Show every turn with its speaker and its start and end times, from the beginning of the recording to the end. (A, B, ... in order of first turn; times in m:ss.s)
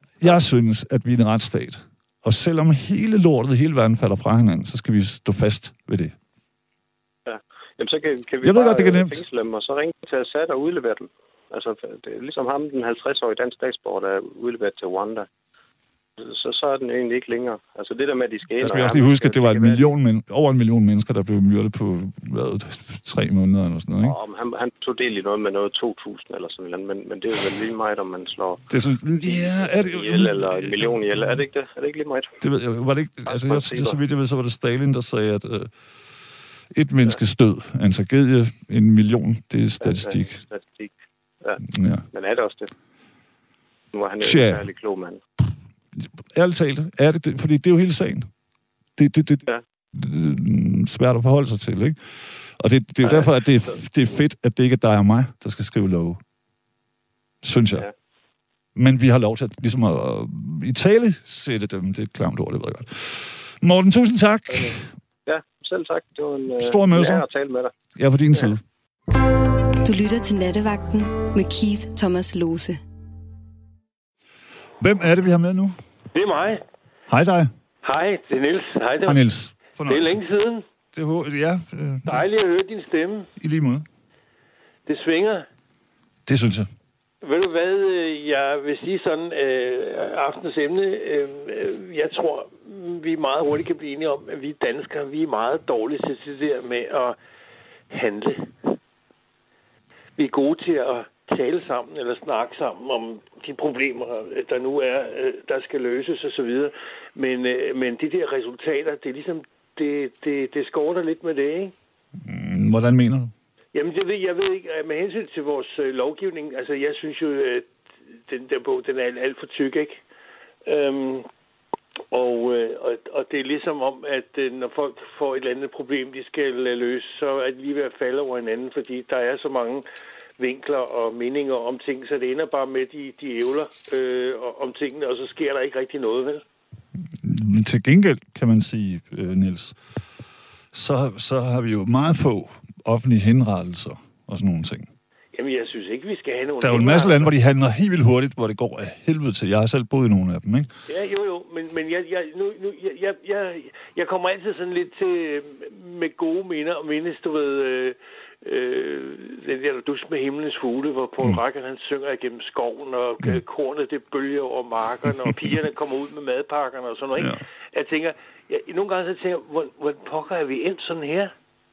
0:00.2-0:06.1 A
0:07.2-0:15.3 B
0:08.4-0:09.2 A
0:16.2-0:19.9 B
0:18.6-0:24.2 A
0:24.0-0:28.6 B
0:28.7-0:31.4 A
0:29.2-0:32.4 B
0:32.4-0:35.7 A
0:33.2-0:34.0 B
0:36.7-0:40.4 A
0:39.8-0:40.9 B
0:41.4-0:42.7 B
0:41.6-0:42.0 A
0:43.9-0:45.2 B
0:44.2-0:44.6 A
0:46.0-0:48.3 A
0:49.0-0:52.0 A
0:52.6-0:56.2 A
0:53.0-0:53.3 B
0:57.4-0:57.8 A
0:58.7-1:04.9 A
1:05.2-1:07.7 B
1:06.6-1:07.2 A
1:07.9-1:08.6 A
1:09.8-1:12.8 C
1:14.8-1:15.8 A
1:16.1-1:16.6 D
1:17.1-1:17.5 A
1:17.8-1:19.2 D
1:19.0-1:20.2 A
1:19.8-1:20.6 D
1:20.9-1:22.3 A
1:22.0-1:23.3 D
1:23.4-1:23.8 A
1:24.8-1:25.4 D
1:26.2-1:26.7 A
1:27.2-1:37.2 D
1:37.9-1:38.8 D
1:40.2-1:51.7 D
1:52.2-1:53.3 A
1:53.7-1:57.7 D
1:58.3-2:00.0 D
2:00.6-2:01.3 D
2:02.1-2:09.8 D
2:10.4-2:16.4 D
2:17.2-2:19.8 A
2:20.7-2:24.9 A
2:25.3-2:27.3 D
2:26.6-2:30.7 A
2:30.9-2:51.3 D
2:45.2-2:45.5 A
2:47.2-2:47.4 A